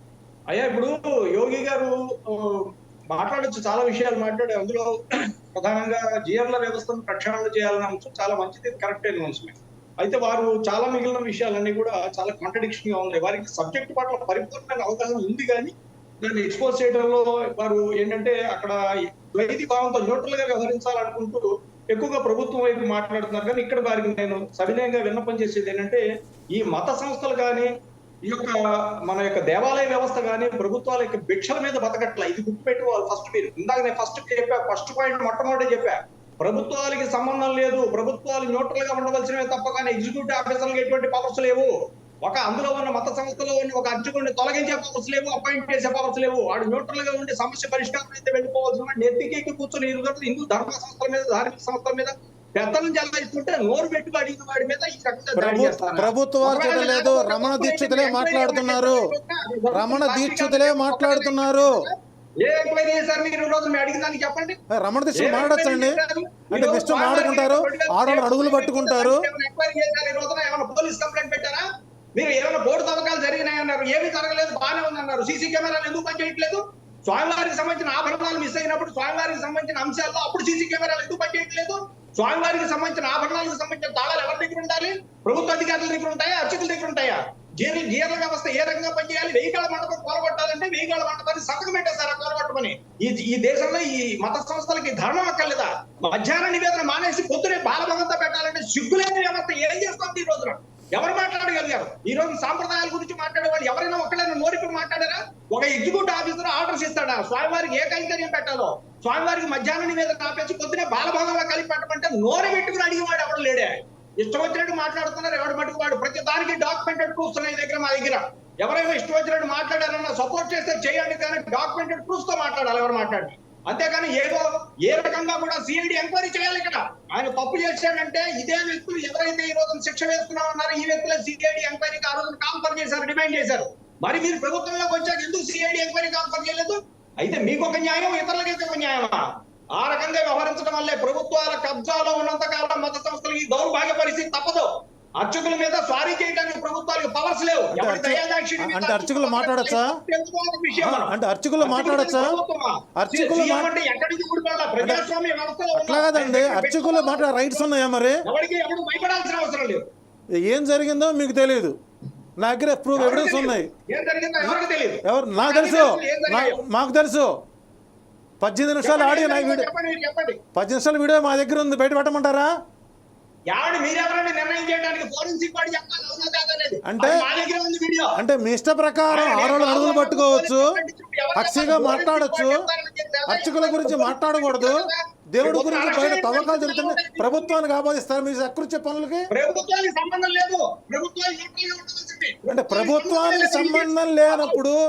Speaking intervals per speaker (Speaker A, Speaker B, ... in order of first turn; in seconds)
Speaker A: 0.5-5.0, 5.5-18.8, 19.3-26.0, 26.6-27.7, 28.3-41.7, 42.2-64.6, 65.2-139.2, 139.8-144.7, 145.2-157.7, 158.3-159.8, 163.0-166.6, 168.8-170.4, 173.5-178.2, 179.1-187.6, 189.3-194.6
Speaker B: 55.4-59.1, 59.7-61.7, 64.8-66.0, 66.5-69.2, 147.7-149.9, 150.8-152.4, 153.0-153.7, 154.8-155.1, 155.7-158.2, 160.4-161.8, 162.4-163.7, 165.1-167.3, 168.4-169.7, 170.6-172.5, 176.8-177.3, 178.2-180.7, 181.3-182.6, 183.3-184.8, 185.3-189.3, 192.5-194.8